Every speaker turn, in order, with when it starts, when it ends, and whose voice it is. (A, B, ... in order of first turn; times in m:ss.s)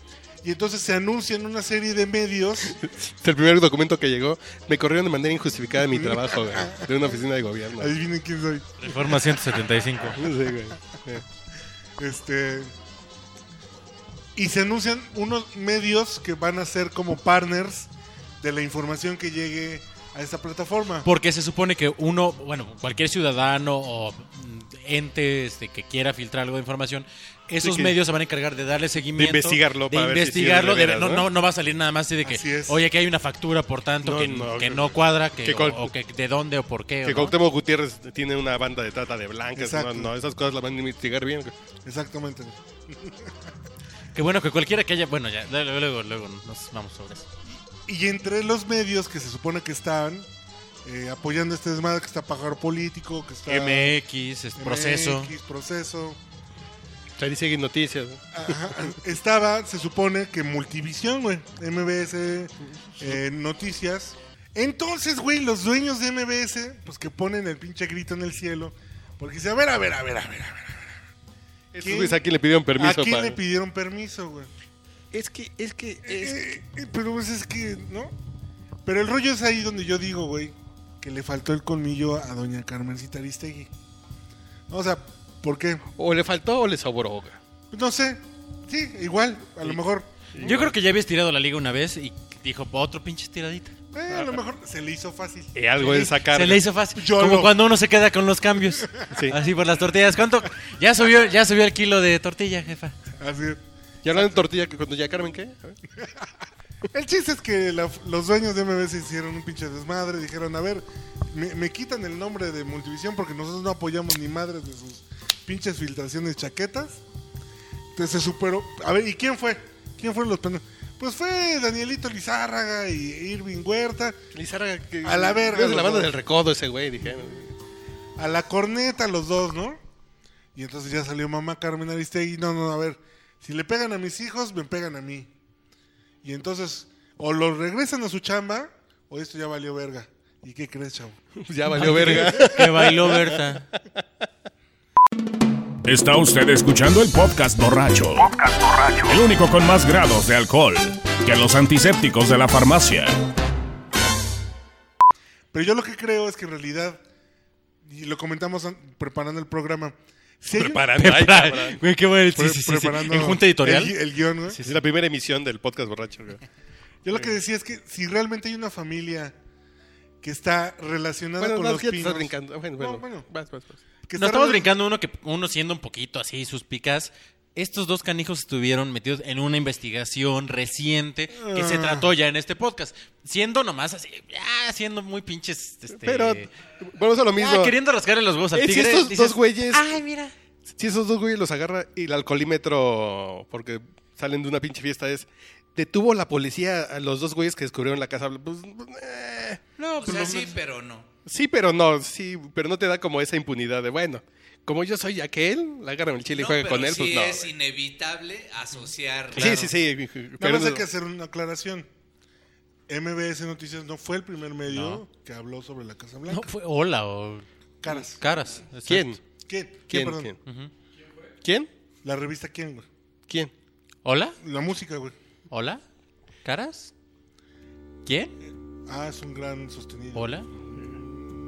0:00.4-0:02.8 A
0:02.7-0:07.9 B
0:05.9-0:06.9 A
0:07.8-0:09.4 A
0:08.8-0:10.2 C
0:10.1-0:11.2 B
0:12.0-0:12.7 A
0:14.3-0:17.9 A
0:18.4-0:21.1 A
0:21.0-0:37.3 C
0:27.6-0:28.0 B
0:29.2-0:31.3 B
0:32.2-0:32.8 A
0:34.0-0:35.9 B
0:37.0-0:41.6 B
0:39.5-0:40.1 A
0:41.8-0:43.3 A
0:44.1-0:47.3 C
0:47.7-0:50.3 A
0:50.8-0:54.0 A
0:53.5-0:55.3 C
0:54.6-0:56.2 A
0:57.2-0:58.6 B
0:58.3-1:11.0 A
1:11.7-1:13.4 B
1:11.8-1:12.2 A
1:12.7-1:14.5 A
1:15.1-1:16.4 B
1:16.0-1:18.1 A
1:18.8-1:23.7 A
1:24.7-1:25.8 A
1:26.0-1:27.4 B
1:27.7-1:30.1 A
1:30.3-1:30.7 B
1:30.4-1:33.7 C
1:33.9-1:36.2 A
1:34.1-1:34.4 B
1:35.5-1:36.6 B
1:35.8-1:43.0 C
1:36.9-1:37.6 A
1:43.2-1:43.6 A
1:44.0-1:45.8 B
1:46.0-1:46.3 A
1:46.9-1:57.0 A
1:57.9-2:04.2 A
2:04.3-2:07.5 B
2:05.0-2:06.1 A
2:08.2-2:09.8 A
2:10.5-2:15.3 A
2:16.2-2:21.2 A
2:21.4-2:23.8 B
2:21.7-2:23.6 C
2:21.8-2:22.5 A
2:25.8-2:33.2 D
2:35.5-2:37.0 A
2:37.8-2:40.9 A
2:40.5-2:41.8 B
2:40.9-2:44.8 C
2:42.3-2:44.6 A
2:44.6-2:46.4 B
2:47.0-2:49.4 A
2:50.2-2:53.3 A
2:51.4-2:53.8 B
2:54.1-2:54.7 A
2:54.1-3:06.5 C
3:01.3-3:02.1 A
3:05.9-3:07.8 B
3:07.4-3:10.3 C
3:08.5-3:09.9 B
3:10.7-3:19.6 B
3:19.8-3:20.5 C
3:20.0-3:21.1 E
3:21.2-3:27.5 B
3:26.3-3:29.5 E
3:29.3-3:29.7 C
3:29.3-3:30.8 B
3:30.4-3:31.9 A
3:32.9-3:36.5 A
3:34.7-3:35.0 C
3:36.3-3:39.1 C
3:37.8-3:38.2 A
3:38.8-3:39.2 B
3:39.4-3:40.3 A
3:39.9-3:40.4 B
3:40.4-3:40.7 C
3:41.4-3:41.7 B
3:42.0-3:42.8 A
3:44.0-3:44.4 C
3:44.4-3:45.1 A
3:45.5-3:45.8 C
3:46.4-3:46.9 C
3:48.0-3:48.3 C
3:48.9-3:50.3 A
3:50.1-3:50.5 C